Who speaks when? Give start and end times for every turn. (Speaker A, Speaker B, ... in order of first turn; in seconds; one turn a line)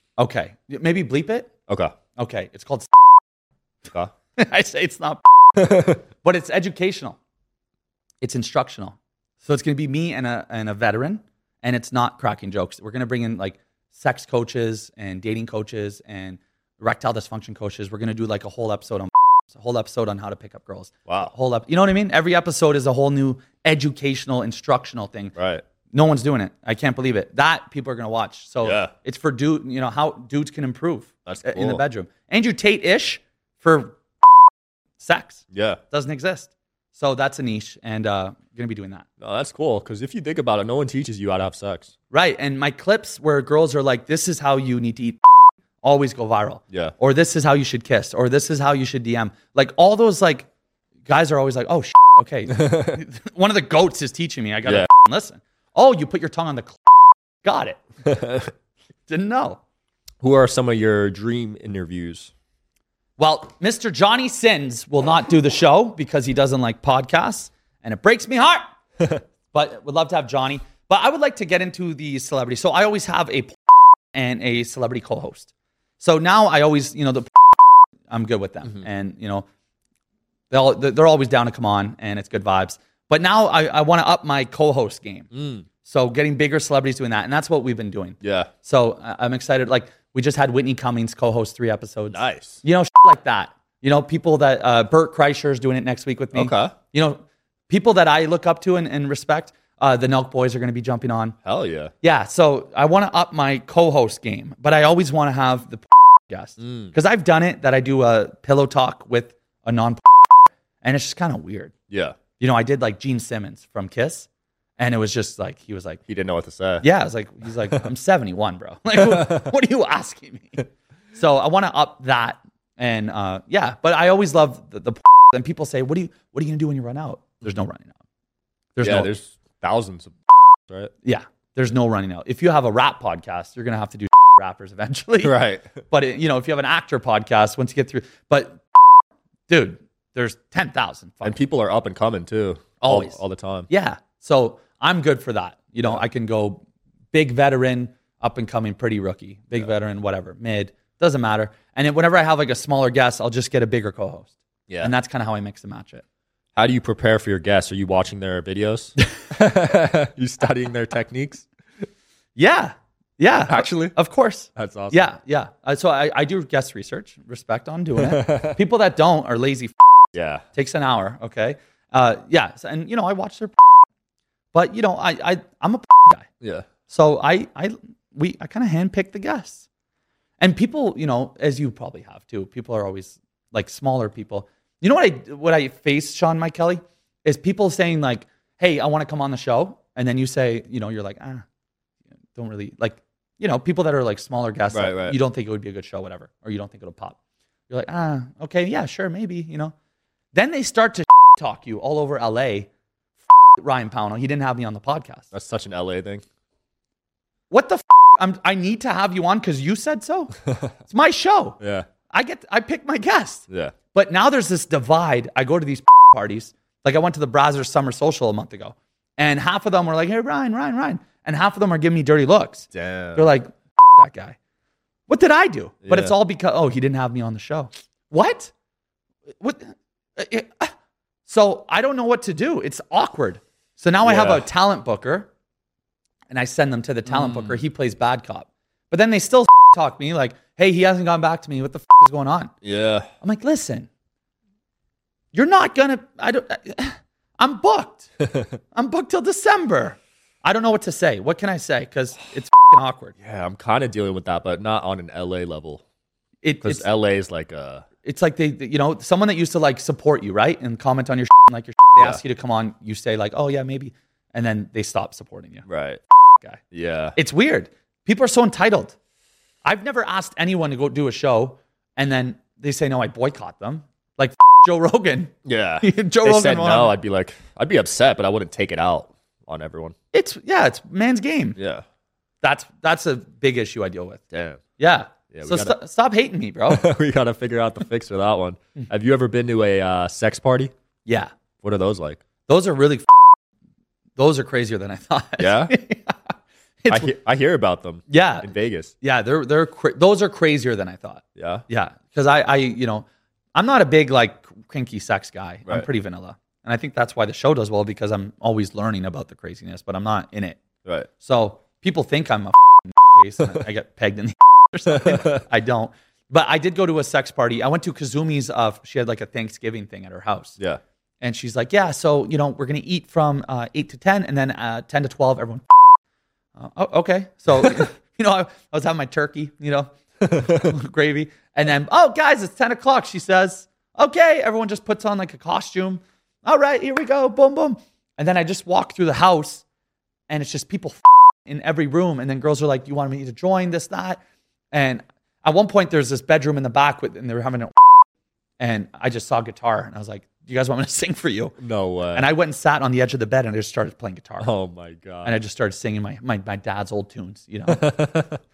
Speaker A: 0.2-1.5
Speaker B: 1.7-1.9
Speaker A: 2.2-2.9
Speaker A: 4.4-7.2
Speaker B: 5.6-6.0
Speaker A: 8.2-25.4
Speaker B: 21.1-21.3
Speaker B: 25.4-25.6
Speaker A: 25.9-34.0
Speaker B: 28.6-28.9
Speaker B: 31.3-31.8
Speaker A: 35.0-39.1
Speaker B: 35.5-35.8
Speaker B: 39.2-41.9
Speaker A: 42.1-45.2
Speaker A: 45.8-50.5
Speaker A: 51.1-56.8
Speaker B: 52.6-53.0
Speaker A: 57.4-57.8
Speaker B: 58.0-58.5
Speaker A: 59.1-59.6
Speaker B: 60.2-62.3
Speaker A: 63.2-68.7
Speaker A: 69.5-73.6
Speaker A: 74.1-75.5
Speaker A: 76.0-79.5
Speaker A: 80.5-85.3
Speaker B: 85.3-85.7
Speaker A: 85.8-101.3
Speaker B: 88.2-88.5
Speaker B: 92.1-92.6
Speaker B: 96.3-96.8
Speaker B: 101.4-101.9
Speaker A: 102.0-111.7
Speaker B: 106.6-106.9
Speaker B: 111.9-112.2
Speaker A: 112.4-116.0
Speaker B: 116.1-116.9
Speaker A: 116.8-128.0
Speaker B: 119.0-119.5
Speaker A: 128.8-129.1
Speaker B: 128.8-130.1
Speaker A: 131.0-135.4
Speaker B: 135.2-135.8
Speaker A: 135.9-138.6
Speaker A: 139.5-141.4
Speaker B: 141.2-143.7
Speaker A: 142.8-156.0
Speaker B: 154.7-154.9
Speaker B: 156.6-161.5
Speaker A: 162.4-169.7
Speaker B: 163.5-163.9
Speaker B: 164.6-165.1
Speaker B: 168.0-168.6
Speaker B: 170.1-170.4
Speaker A: 170.5-173.6
Speaker A: 174.5-176.3
Speaker B: 176.4-176.7
Speaker A: 176.9-179.7
Speaker A: 180.4-191.4
Speaker A: 192.3-197.2
Speaker B: 194.7-195.2
Speaker A: 197.7-199.7
Speaker A: 200.3-202.7
Speaker A: 203.6-205.3
Speaker B: 205.3-206.2
Speaker A: 207.5-211.6
Speaker B: 211.6-211.9
Speaker A: 212.1-224.4
Speaker B: 213.5-213.7
Speaker B: 222.7-223.2
Speaker A: 225.1-228.5
Speaker B: 225.8-226.1
Speaker A: 229.4-230.7
Speaker A: 231.3-235.3
Speaker B: 234.0-234.4
Speaker A: 236.3-242.5
Speaker B: 237.1-237.6
Speaker B: 242.6-243.1
Speaker A: 243.2-243.9
Speaker A: 245.3-248.1
Speaker A: 248.7-253.2
Speaker B: 253.2-255.8
Speaker A: 256.4-256.9
Speaker B: 256.6-257.9
Speaker A: 258.0-265.7
Speaker B: 265.7-266.0
Speaker B: 266.7-267.2
Speaker A: 267.2-268.9
Speaker A: 269.6-276.9
Speaker B: 275.4-279.9
Speaker A: 280.1-281.6
Speaker B: 281.6-281.9
Speaker A: 282.4-284.2
Speaker B: 284.3-284.6
Speaker A: 284.8-286.9
Speaker B: 285.3-285.8
Speaker B: 286.7-290.7
Speaker A: 291.1-291.3
Speaker B: 291.6-292.2
Speaker A: 292.5-293.2
Speaker A: 294.2-296.3
Speaker B: 295.4-295.7
Speaker A: 296.8-297.1
Speaker B: 296.9-298.9
Speaker A: 298.1-298.5
Speaker A: 299.0-310.6
Speaker B: 301.4-301.6
Speaker A: 311.2-320.6
Speaker B: 314.9-315.4
Speaker A: 321.2-325.6
Speaker A: 326.6-339.6
Speaker A: 340.3-344.2
Speaker A: 344.7-347.8
Speaker A: 348.6-351.6
Speaker B: 351.6-352.3
Speaker A: 352.1-354.5
Speaker B: 354.4-355.4
Speaker A: 355.2-357.9
Speaker B: 357.7-358.4